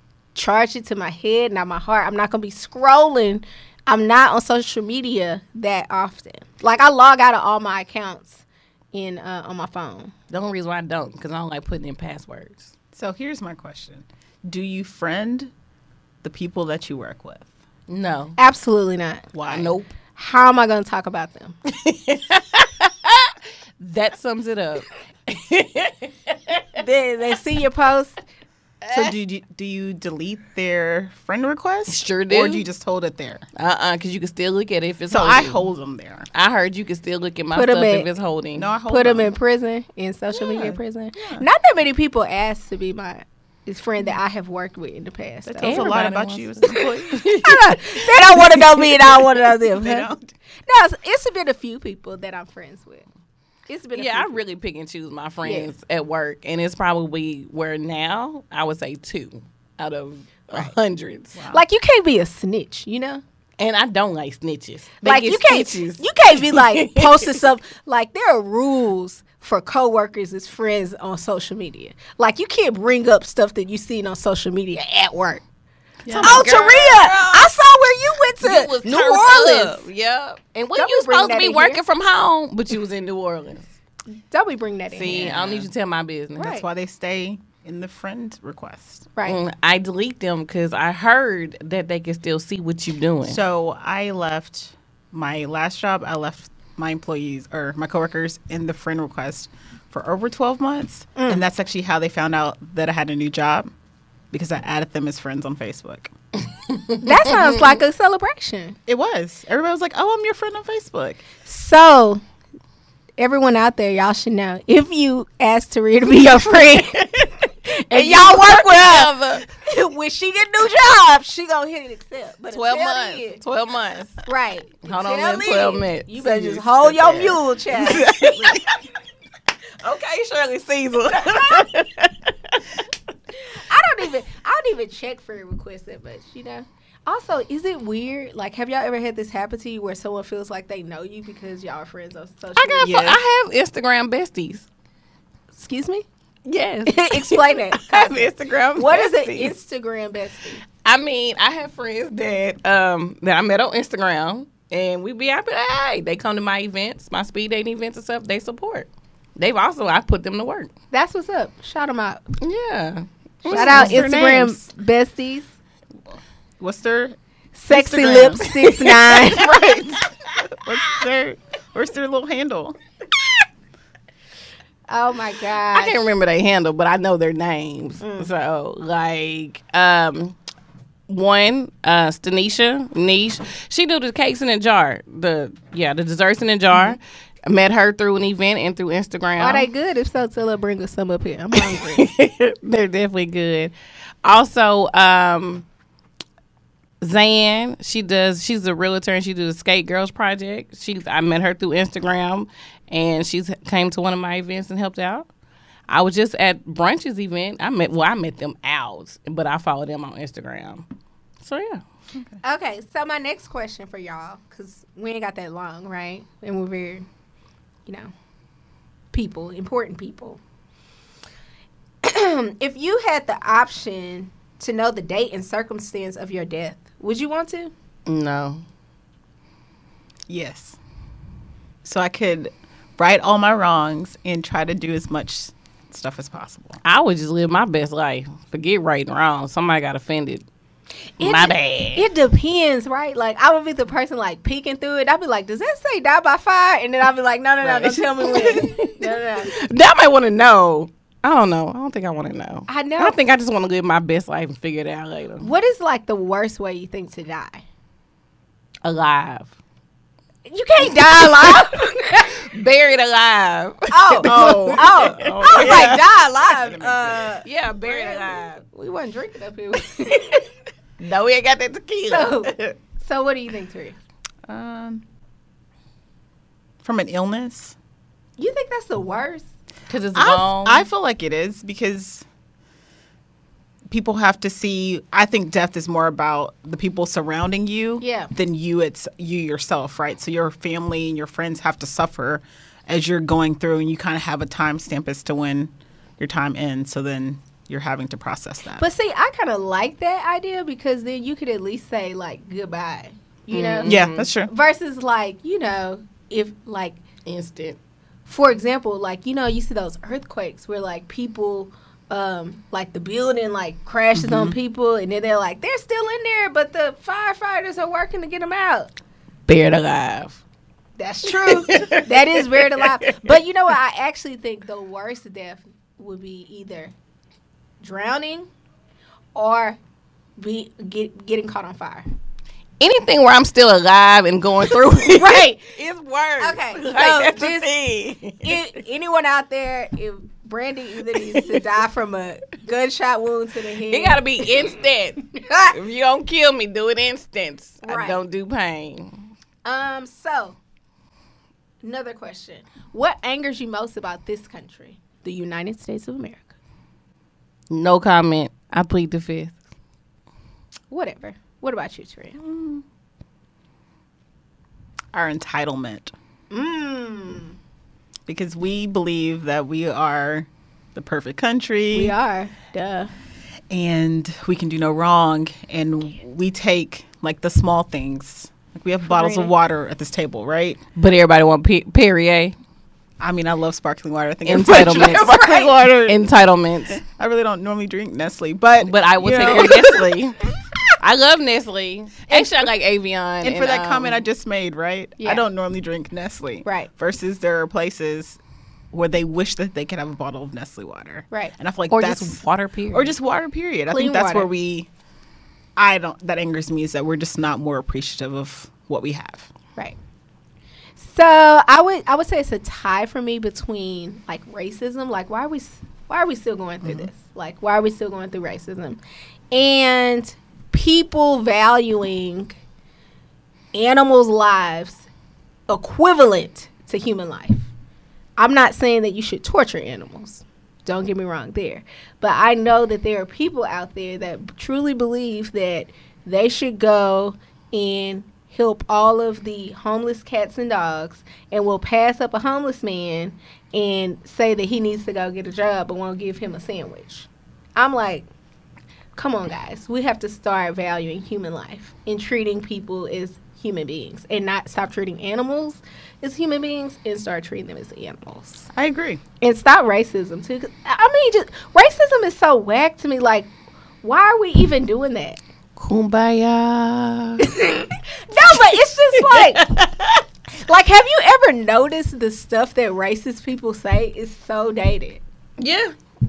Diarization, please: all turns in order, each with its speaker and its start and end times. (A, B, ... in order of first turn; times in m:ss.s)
0:00.4-0:10.1 A
0:10.3-0:12.7 B
0:12.9-0:15.5 C
0:16.2-0:17.5 C
0:17.9-0:18.4 B
0:18.4-0:19.3 A
0:19.3-0:19.8 C
0:19.5-0:20.0 B
0:20.2-0:21.6 A
0:21.7-0:26.6 B
0:26.8-0:28.2 A
0:28.8-0:29.1 B
0:28.9-0:33.5 C
0:31.9-0:32.7 B
0:33.6-0:35.7 B
0:35.1-0:36.3 C
0:36.3-0:38.7 B
0:37.5-0:38.1 A
0:38.6-0:39.3 C
0:38.9-0:45.9 A
0:40.4-0:41.5 C
0:45.4-0:47.4 C
0:45.6-0:48.0 B
0:46.6-0:50.1 A
0:49.1-0:50.4 C
0:50.7-0:53.1 A
0:53.7-0:54.4 A
0:53.9-1:01.4 B
0:55.4-0:55.7 A
1:01.4-1:01.6 C
1:01.5-1:03.2 A
1:03.6-1:07.3 B
1:05.0-1:15.4 A
1:16.0-1:16.5 C
1:16.1-1:17.5 B
1:16.2-1:19.9 A
1:18.4-1:23.7 B
1:20.8-1:21.8 A
1:24.3-1:25.3 A
1:24.9-1:26.6 B
1:25.1-1:25.7 C
1:26.4-1:26.7 A
1:26.4-1:29.1 C
1:29.2-1:29.4 A
1:29.2-1:33.4 B
1:33.2-1:43.7 C
1:41.2-1:41.4 A
1:44.3-1:46.1 C
1:47.0-1:48.8 A
1:48.9-1:51.3 C
1:51.4-1:52.2 A
1:53.2-2:03.4 A
1:56.8-1:57.2 B
1:57.9-1:59.5 B
2:02.5-2:04.3 B
2:04.3-2:08.6 A
2:04.8-2:08.8 B
2:09.8-2:12.7 B
2:13.7-2:23.1 A
2:22.6-2:24.7 B
2:22.8-2:23.2 C
2:25.5-2:26.0 A
2:26.4-2:29.5 B
2:26.9-2:30.6 A
2:30.8-2:40.7 B
2:40.9-2:42.2 A
2:42.4-2:44.1 B
2:43.4-2:44.7 C
2:43.5-2:45.5 A
2:46.6-2:47.2 C
2:47.6-2:49.4 A
2:47.7-2:52.8 C
2:54.9-2:56.1 A
2:55.7-3:00.4 B
2:58.0-2:58.3 A
3:01.1-3:09.7 B
3:09.4-3:12.0 A
3:11.7-3:15.7 B
3:17.0-3:25.3 B
3:25.9-3:30.9 B
3:31.4-3:31.8 B
3:32.1-3:32.4 C
3:32.4-3:37.0 A
3:37.9-3:38.1 A
3:39.1-3:40.4 A
3:42.0-3:47.7 A
3:48.1-3:48.6 B
3:50.3-3:50.8 C
3:51.8-3:56.8 C
3:56.8-4:00.4 B
4:01.2-4:09.5 A
4:01.2-4:02.1 B
4:07.6-4:15.5 B
4:12.7-4:13.2 A
4:15.4-4:17.6 A
4:18.8-4:19.5 B
4:20.5-4:22.3 A
4:20.9-4:26.0 B
4:23.9-4:30.5 A
4:24.2-4:27.4 C
4:27.4-4:28.6 B
4:31.0-4:32.8 B
4:32.1-4:34.0 A
4:34.5-4:35.0 C
4:36.8-4:37.8 C
4:38.4-4:39.5 A
4:39.9-4:40.9 B
4:40.2-4:42.3 C
4:43.9-4:58.9 C
4:48.0-4:48.3 A
4:58.8-5:03.9 A
5:03.5-5:04.3 B
5:03.8-5:04.5 C
5:04.5-5:07.0 A
5:07.2-5:07.8 B
5:08.3-5:18.9 A
5:19.5-5:20.4 B
5:21.0-5:26.9 A
5:21.4-5:22.8 B
5:27.8-5:28.5 A
5:29.4-5:29.8 A
5:30.4-5:32.1 A
5:32.8-5:38.6 B
5:34.7-5:35.7 A
5:36.4-5:37.7 A
5:38.4-5:44.7 A
5:41.1-5:41.5 B
5:43.9-5:49.1 B
5:45.3-5:45.8 A
5:47.8-5:48.2 A
5:49.6-5:50.6 A
5:51.8-5:56.5 A
5:57.7-5:59.6 B
6:00.9-6:02.4 A
6:02.4-6:02.7 C
6:05.1-6:06.1 C
6:06.5-6:07.6 A
6:08.3-6:12.2 C
6:11.9-6:13.1 A
6:13.7-6:20.8 C
6:19.1-6:19.5 A
6:21.0-6:22.6 B
6:23.2-6:26.2 C
6:24.4-6:27.0 B
6:25.0-6:25.7 A
6:27.0-6:30.1 C
6:28.8-6:30.4 B
6:31.0-6:34.2 B
6:33.4-6:38.4 C
6:38.9-6:42.4 C
6:41.9-6:43.1 B
6:42.9-6:44.9 C
6:43.9-6:44.5 A
6:45.8-6:49.5 C
6:51.0-7:02.6 A
6:56.8-6:57.1 C
7:03.7-7:05.0 A
7:05.7-7:07.7 A
7:08.4-7:28.3 A
7:29.2-7:38.7 A
7:38.7-7:39.2 C
7:39.4-7:43.5 A
7:44.0-7:45.4 A
7:45.8-7:47.5 B
7:47.4-7:49.6 A
7:49.3-7:50.2 B
7:50.7-7:55.2 A
7:55.6-7:55.9 B